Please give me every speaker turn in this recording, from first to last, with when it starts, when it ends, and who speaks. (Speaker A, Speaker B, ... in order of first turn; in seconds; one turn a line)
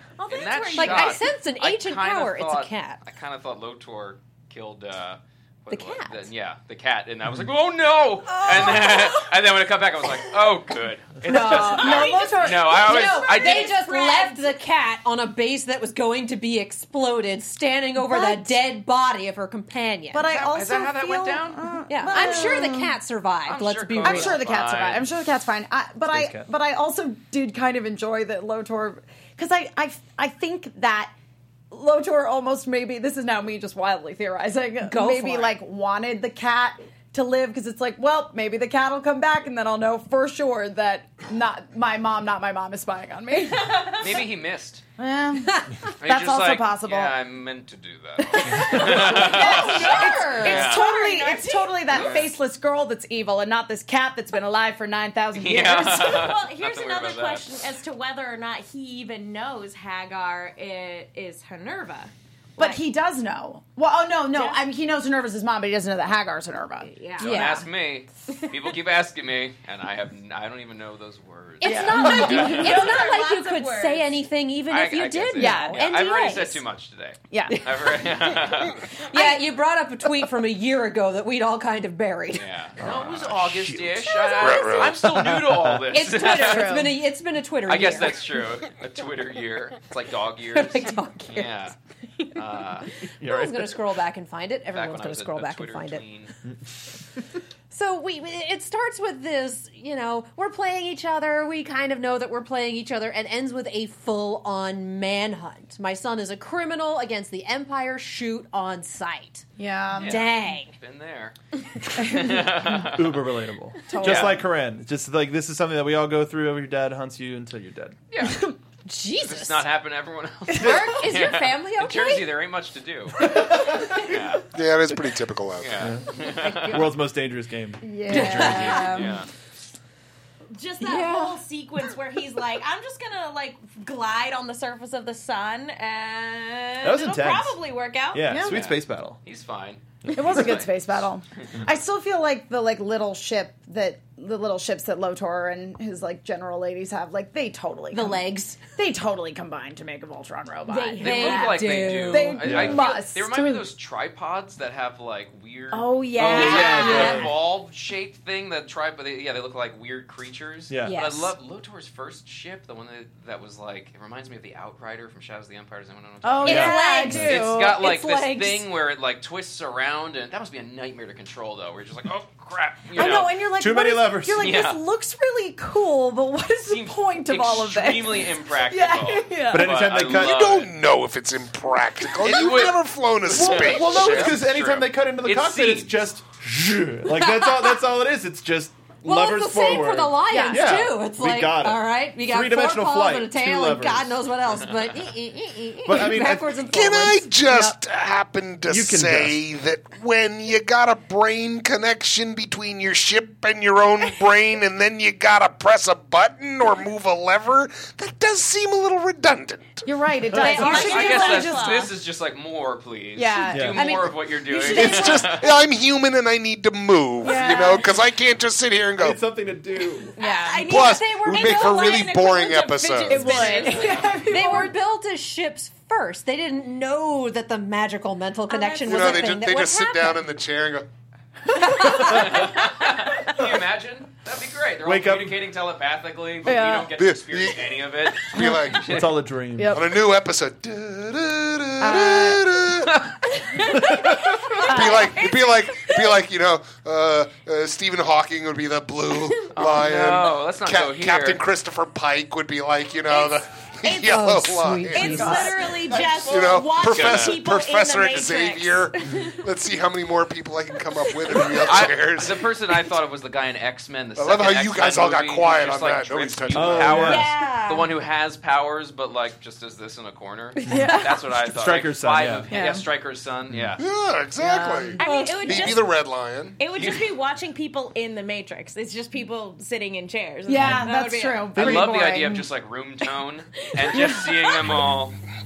Speaker A: 0.2-1.2
Speaker B: 0.3-13.8
Speaker C: 0.8-3.0
Speaker C: 5.7-6.3
Speaker C: 8.3-9.3
Speaker D: 11.2-13.1
Speaker A: 11.4-14.5
Speaker C: 12.7-20.3
Speaker D: 18.0-18.6
Speaker D: 20.1-22.9
Speaker B: 20.3-22.6
Speaker C: 21.9-24.4
Speaker B: 23.4-25.1
Speaker D: 24.0-31.1
Speaker E: 26.1-26.5
Speaker D: 31.7-44.0
Speaker C: 34.8-35.6
Speaker B: 44.0-44.8
Speaker D: 45.0-47.1
Speaker B: 46.0-50.8
Speaker D: 48.2-56.2
Speaker A: 48.8-52.2
Speaker C: 49.2-50.6
Speaker B: 51.9-52.3
Speaker B: 55.3-57.6
Speaker A: 55.8-62.8
Speaker D: 62.6-66.9
Speaker A: 64.3-64.6
Speaker A: 66.8-67.5
Speaker C: 67.2-67.7
Speaker B: 67.2-72.9
Speaker C: 71.6-76.6
Speaker D: 71.7-72.9
Speaker A: 71.7-74.1
Speaker B: 74.7-78.8
Speaker D: 75.4-75.9
Speaker D: 77.3-77.6
Speaker C: 79.1-82.4
Speaker B: 82.3-86.8
Speaker E: 82.8-84.0
Speaker F: 84.4-85.0
Speaker E: 85.0-85.8
Speaker C: 85.9-88.2
Speaker D: 86.1-87.0
Speaker B: 87.7-91.7
Speaker C: 90.5-91.7
Speaker B: 92.3-92.9
Speaker E: 93.2-93.7
Speaker C: 93.2-96.0
Speaker B: 94.7-96.3
Speaker C: 97.7-109.4
Speaker D: 109.6-110.2
Speaker B: 110.0-111.3
Speaker C: 110.0-110.7
Speaker B: 111.9-113.2
Speaker D: 112.0-112.5
Speaker E: 112.8-118.0
Speaker D: 113.9-114.5
Speaker B: 114.0-114.4
Speaker B: 118.1-118.5
Speaker D: 118.3-118.5
Speaker C: 118.8-119.6
Speaker B: 119.2-124.4
Speaker C: 120.5-122.3
Speaker E: 123.2-124.2
Speaker F: 124.5-125.9
Speaker B: 125.6-126.9
Speaker E: 125.8-129.0
Speaker D: 127.8-129.2
Speaker C: 128.1-128.9
Speaker B: 128.4-129.3
Speaker A: 130.5-138.4
Speaker C: 130.8-131.4
Speaker E: 136.8-137.6
Speaker E: 138.1-139.2
Speaker D: 138.3-138.6
Speaker B: 138.4-140.7
Speaker E: 140.0-140.6
Speaker D: 140.1-148.2
Speaker C: 147.9-148.6
Speaker D: 148.8-153.6
Speaker C: 150.7-152.4
Speaker B: 151.0-173.4
Speaker E: 152.4-152.9
Speaker D: 155.7-157.2
Speaker E: 156.2-157.3
Speaker C: 156.3-157.2
Speaker A: 156.4-157.1
Speaker E: 160.7-160.9
Speaker C: 160.8-161.3
Speaker D: 166.2-167.8
Speaker E: 166.4-167.4
Speaker C: 166.4-168.6
Speaker D: 172.9-179.8
Speaker E: 173.6-174.6
Speaker B: 174.4-174.8
Speaker B: 176.6-180.7
Speaker E: 179.5-180.5
Speaker F: 180.0-184.4
Speaker B: 182.2-185.9
Speaker E: 183.3-194.1
Speaker C: 187.1-187.8
Speaker C: 189.0-197.3
Speaker D: 190.3-190.7
Speaker E: 195.8-196.5
Speaker F: 196.7-209.8
Speaker E: 198.7-199.3
Speaker D: 209.8-211.9
Speaker A: 210.3-211.9
Speaker C: 210.4-211.4
Speaker B: 210.5-215.5
Speaker D: 213.2-215.3
Speaker E: 213.5-213.9
Speaker C: 213.7-215.2
Speaker F: 214.7-219.2
Speaker D: 217.2-217.9
Speaker E: 219.0-220.2
Speaker D: 220.2-220.8
Speaker A: 220.2-224.2
Speaker F: 220.6-223.7
Speaker D: 223.1-224.7
Speaker C: 224.2-230.2
Speaker A: 228.5-229.3
Speaker F: 228.8-230.9
Speaker C: 231.6-232.4
Speaker B: 231.8-239.2
Speaker E: 231.9-232.3
Speaker E: 234.8-235.4
Speaker D: 236.4-236.9
Speaker F: 237.0-238.9
Speaker E: 238.8-239.8
Speaker D: 239.6-239.8
Speaker F: 239.7-243.0
Speaker D: 241.8-242.4
Speaker F: 244.2-255.3
Speaker A: 244.6-245.4
Speaker D: 244.6-245.2
Speaker B: 249.5-251.4
Speaker A: 253.8-254.3
Speaker C: 254.0-255.6
Speaker A: 254.9-259.4
Speaker D: 255.0-256.3
Speaker F: 256.2-262.5
Speaker B: 256.6-257.4
Speaker B: 261.6-273.8
Speaker F: 264.1-267.0
Speaker E: 266.5-267.3
Speaker A: 266.9-267.9
Speaker D: 267.1-267.5
Speaker D: 270.6-271.2
Speaker E: 271.4-272.5
Speaker D: 272.5-272.8
Speaker E: 273.5-273.8
Speaker F: 273.8-276.6
Speaker D: 274.4-275.8
Speaker A: 275.0-275.8
Speaker A: 276.6-281.5
Speaker B: 276.7-277.1
Speaker D: 280.4-282.5
Speaker E: 280.6-280.8
Speaker E: 281.5-282.0
Speaker B: 281.6-285.2
Speaker A: 283.9-284.7
Speaker D: 283.9-284.2